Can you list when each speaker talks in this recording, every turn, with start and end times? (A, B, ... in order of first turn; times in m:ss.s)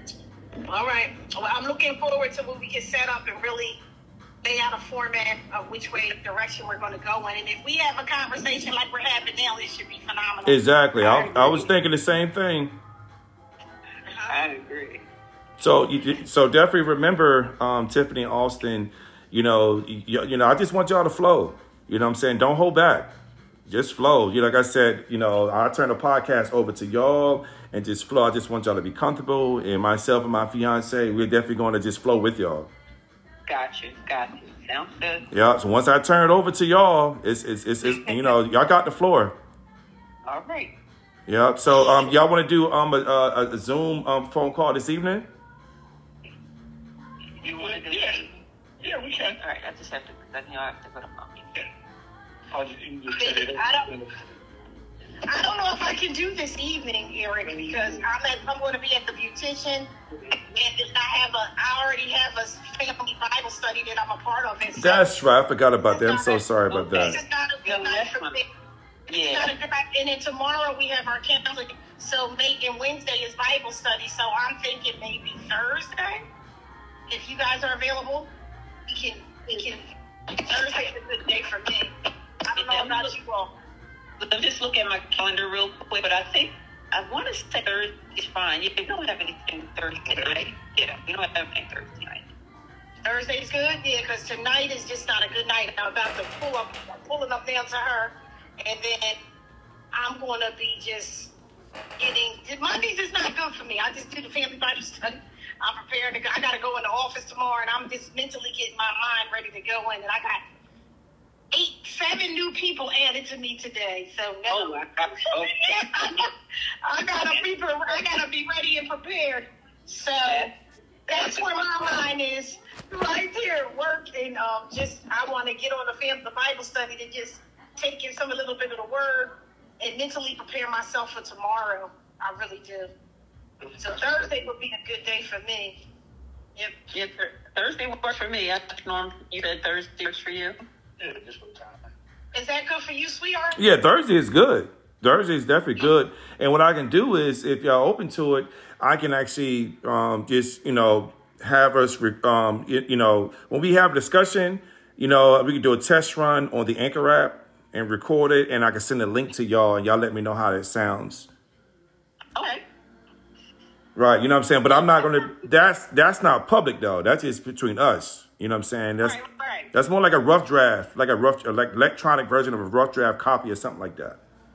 0:00.7-0:03.8 A
0:04.4-0:11.6 A
0:10.4-0:12.8 B
0:14.1-0:14.4 A
0:14.3-0:15.1 C
0:15.6-0:23.1 B
0:23.7-0:32.7 B
0:33.5-0:35.2 C
0:35.3-0:39.4 B
0:37.8-0:38.3 C
0:40.2-0:40.7 C
0:41.3-0:45.3 B
0:41.8-0:42.1 C
0:47.4-0:48.3 D
0:47.4-0:48.4 C
0:48.8-0:49.4 D
0:49.4-0:51.5 C
0:52.5-0:54.1 D
0:53.1-0:54.0 A
0:55.3-0:59.9 A
1:00.2-1:00.6 C
1:00.6-1:05.2 A
1:04.7-1:07.2 B
1:05.9-1:08.5 A
1:06.9-1:08.4 C
1:09.1-1:09.5 C
1:09.1-1:16.2 A
1:17.1-1:18.3 A
1:18.9-1:19.8 A
1:20.5-1:21.9 A
1:20.5-1:21.4 C
1:22.4-1:23.5 A
1:22.6-1:23.1 C
1:24.2-1:32.2 C
1:33.0-1:39.2 A
1:39.9-1:41.3 A
1:42.0-1:50.4 A
1:51.5-1:56.3 A
1:54.5-1:56.2 C
1:56.8-2:00.5 A
1:57.2-1:58.0 C
2:00.2-2:00.5 C
2:01.1-2:12.9 A
2:01.1-2:01.7 C
2:13.6-2:14.5 D
2:13.8-2:15.8 A
2:16.9-2:20.6 C
2:21.0-2:21.9 D
2:22.3-2:23.7 A
2:23.6-2:41.3 B
2:42.4-2:42.6 C
2:44.0-2:49.2 B
2:44.7-2:45.3 C
2:49.0-2:49.7 C
2:49.7-2:54.2 B